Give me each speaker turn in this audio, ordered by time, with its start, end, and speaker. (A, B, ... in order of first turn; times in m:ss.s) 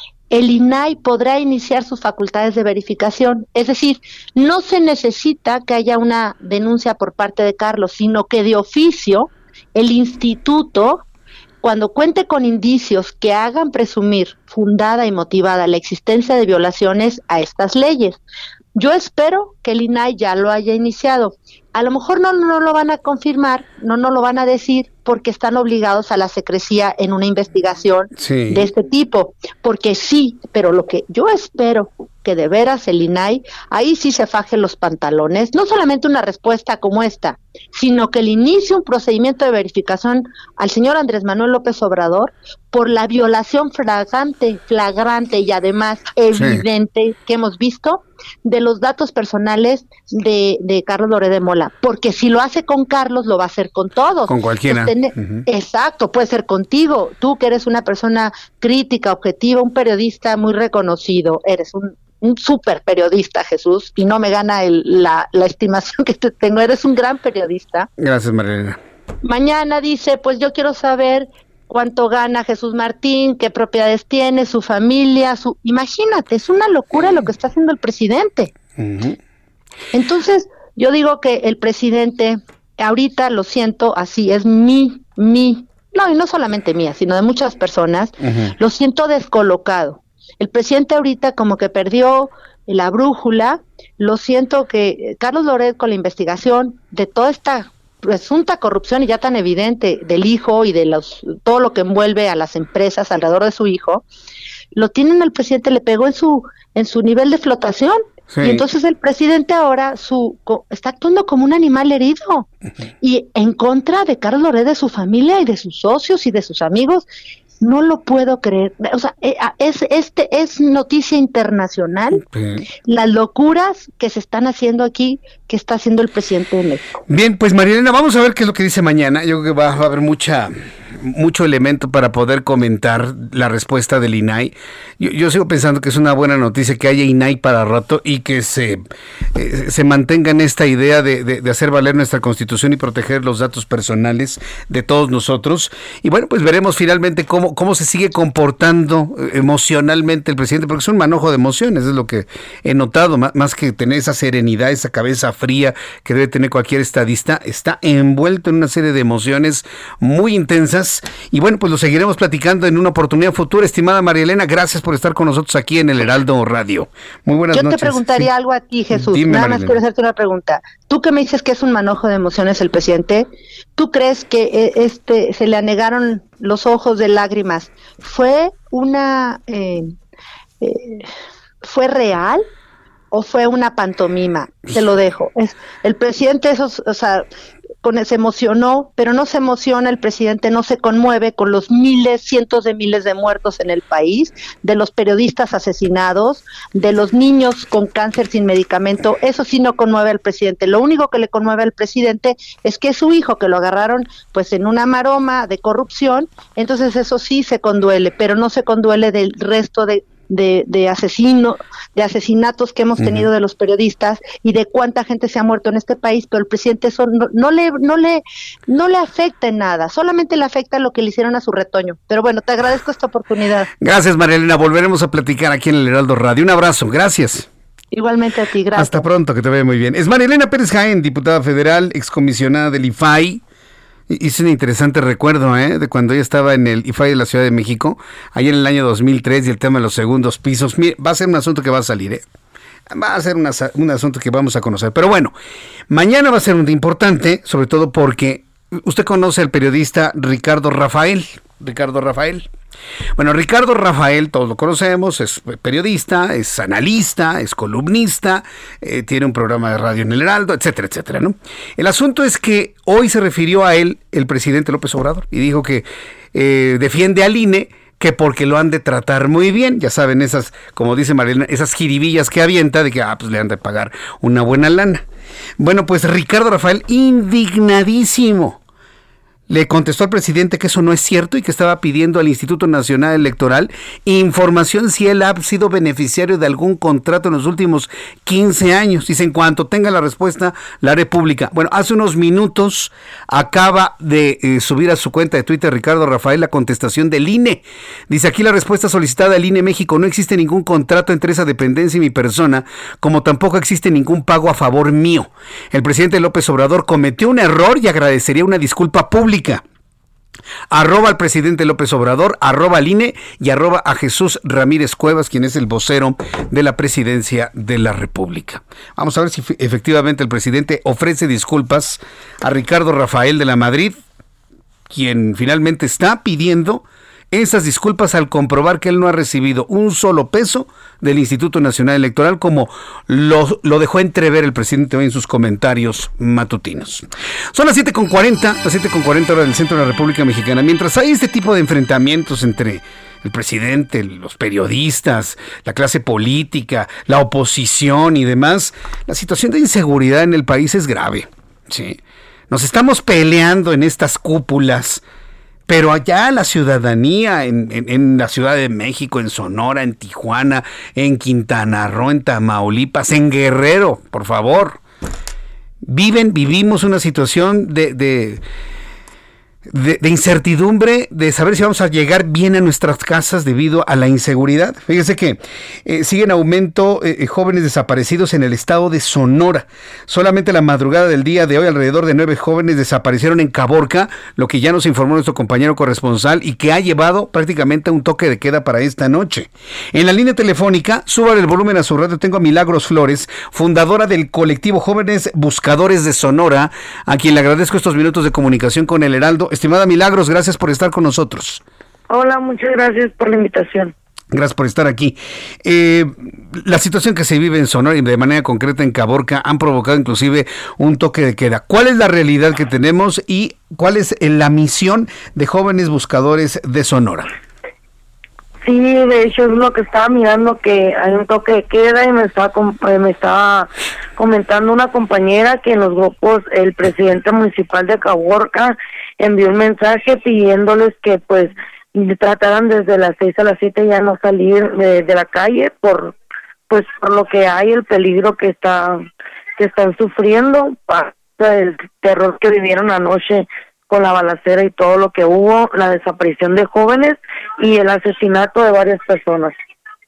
0:00.3-0:11.0 A
0:11.6-0:18.2 A
0:18.7-1:07.9 A
0:28.2-0:28.7 B
0:46.3-0:46.6 B
0:54.2-0:55.4 B
1:08.0-1:08.8 B
1:09.2-1:18.5 A
1:18.8-1:19.2 B
1:19.9-1:44.0 A
1:28.2-1:28.6 B
1:44.7-1:52.5 A
1:48.3-1:48.6 B
1:53.0-1:57.1 A
1:57.6-2:02.2 A
2:02.1-2:02.6 B
2:02.8-2:06.8 A
2:07.1-2:18.8 B
2:19.3-2:48.3 B
2:47.5-2:59.9 A
2:48.9-2:49.8 B
3:00.6-3:01.1 A
3:01.6-3:02.4 A
3:03.1-3:07.3 A
3:07.8-3:43.7 A
3:33.0-3:33.3 B
3:43.8-3:47.5 B
3:47.9-3:49.0 A
3:48.7-3:53.4 B
3:54.1-4:02.2 B
4:02.9-4:05.3 B
4:05.9-4:12.5 B
4:13.2-4:35.0 B
4:35.6-4:38.6 B
4:39.5-5:09.6 B
5:10.7-5:24.0 B
5:24.9-5:52.0 B
5:52.5-5:55.0 B
5:55.7-6:04.8 B
6:05.8-6:08.4 B
6:09.7-6:41.6 B
6:42.1-6:43.9 C
6:44.3-6:57.3 B
6:58.6-7:16.1 C
7:16.7-7:19.0 C
7:19.6-7:29.5 C